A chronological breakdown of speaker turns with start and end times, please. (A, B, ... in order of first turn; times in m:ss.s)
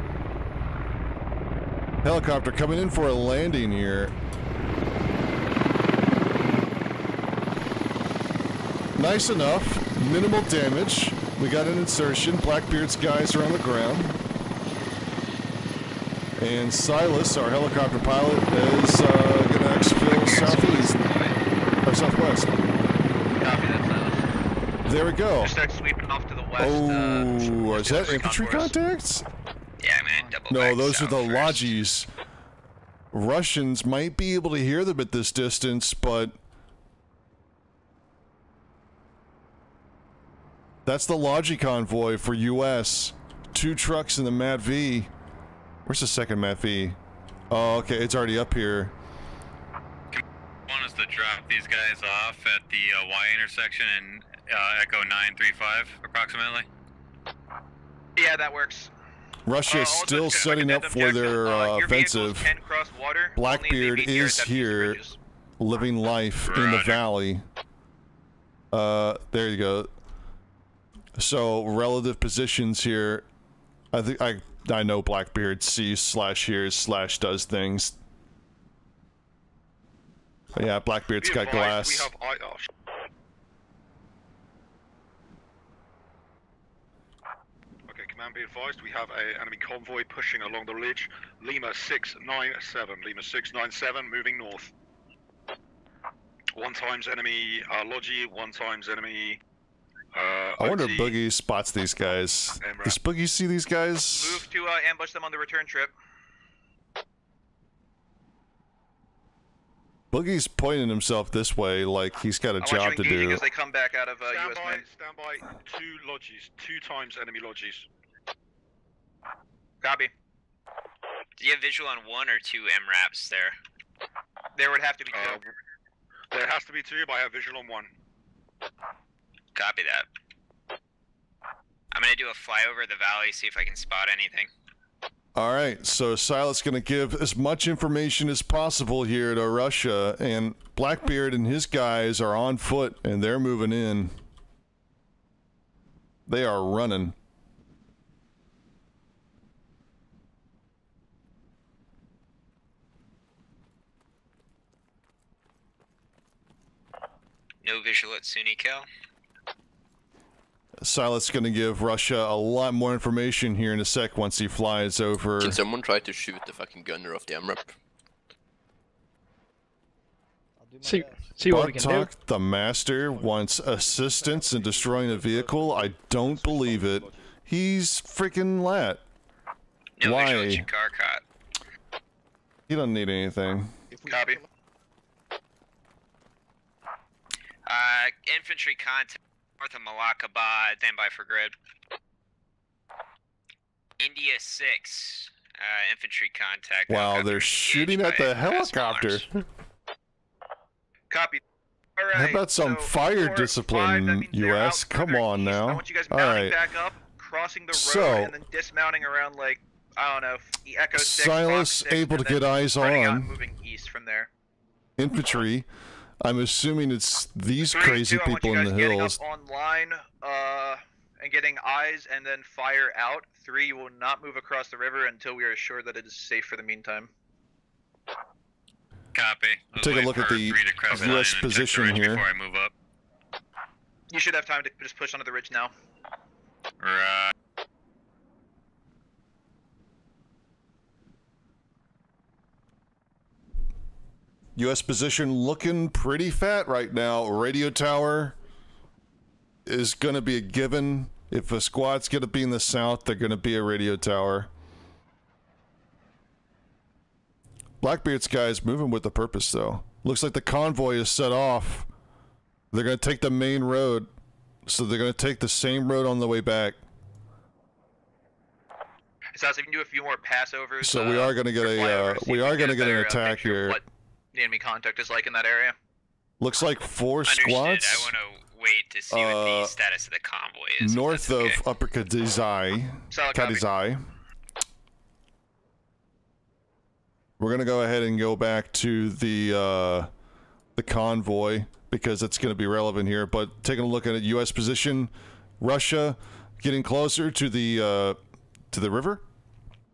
0:02.0-0:04.1 A
0:09.0-0:14.2 A
0:16.4-0:21.0 A
0:20.3-0:20.8 B
0:21.8-0:22.6 A
0:23.4-0:24.2 B
0:24.8-0:25.5 A
0:25.4-0:28.8 B
0:26.6-0:29.2 A
0:29.8-0:31.7 C
0:30.5-0:32.1 A
0:33.1-0:36.4 A
0:40.8-0:45.1 A
0:45.8-0:47.0 A
0:47.5-0:48.9 A
0:50.1-0:56.6 D
0:58.2-0:58.9 B
0:59.4-1:02.5 A
0:59.7-1:05.2 B
1:03.4-1:05.0 A
1:05.6-1:07.4 A
1:08.7-1:09.9 A
1:11.2-1:13.2 A
1:13.9-1:18.0 A
1:20.6-1:22.1 A
1:21.2-1:22.7 E
1:27.9-1:34.7 E
1:36.5-1:39.4 E
1:40.1-1:41.1 E
1:40.6-1:44.4 A
1:42.6-1:43.0 E
1:44.1-1:45.9 B
1:50.1-1:53.4 A
1:52.6-1:54.8 B
1:54.2-1:57.8 E
1:59.8-2:00.1 B
2:01.4-2:03.6 C
2:04.6-2:05.4 B
2:05.1-2:05.5 E
2:06.3-2:07.9 E
2:09.5-2:10.1 C
2:11.9-2:14.5 C
2:15.3-2:24.1 A
2:26.3-2:27.1 A
2:37.6-2:38.9 C
2:40.8-2:45.6 A
2:45.4-2:47.7 F
2:50.6-2:51.4 G
2:51.4-2:59.0 A
2:54.0-2:56.8 G
3:00.0-3:01.2 C
3:00.0-3:00.7 A
3:02.7-3:03.7 A
3:04.1-3:04.4 B
3:07.6-3:11.5 C
3:14.0-3:19.2 C
3:16.9-3:19.2 A
3:21.1-3:21.4 B
3:22.0-3:34.3 B
3:22.1-3:26.6 A
3:27.7-3:28.3 A
3:30.9-3:33.3 A
3:35.0-3:35.7 A
3:36.2-3:39.2 A
3:37.6-3:47.1 B
3:49.1-3:52.7 D
3:49.8-3:52.2 A
3:54.1-3:55.7 B
3:56.8-3:57.3 D
4:04.6-4:08.4 A
4:09.6-4:14.5 A
4:17.8-4:21.9 A
4:22.7-4:24.1 A
4:24.6-4:26.8 A
4:29.3-4:33.8 B
4:30.8-4:33.8 A
4:34.3-4:35.7 B
4:36.4-4:38.1 A
4:37.2-4:41.6 C
4:39.1-4:39.7 A
4:40.8-4:44.0 A
4:43.1-4:43.6 B
4:47.4-4:50.1 A
4:50.8-4:58.2 A
4:58.7-4:59.2 A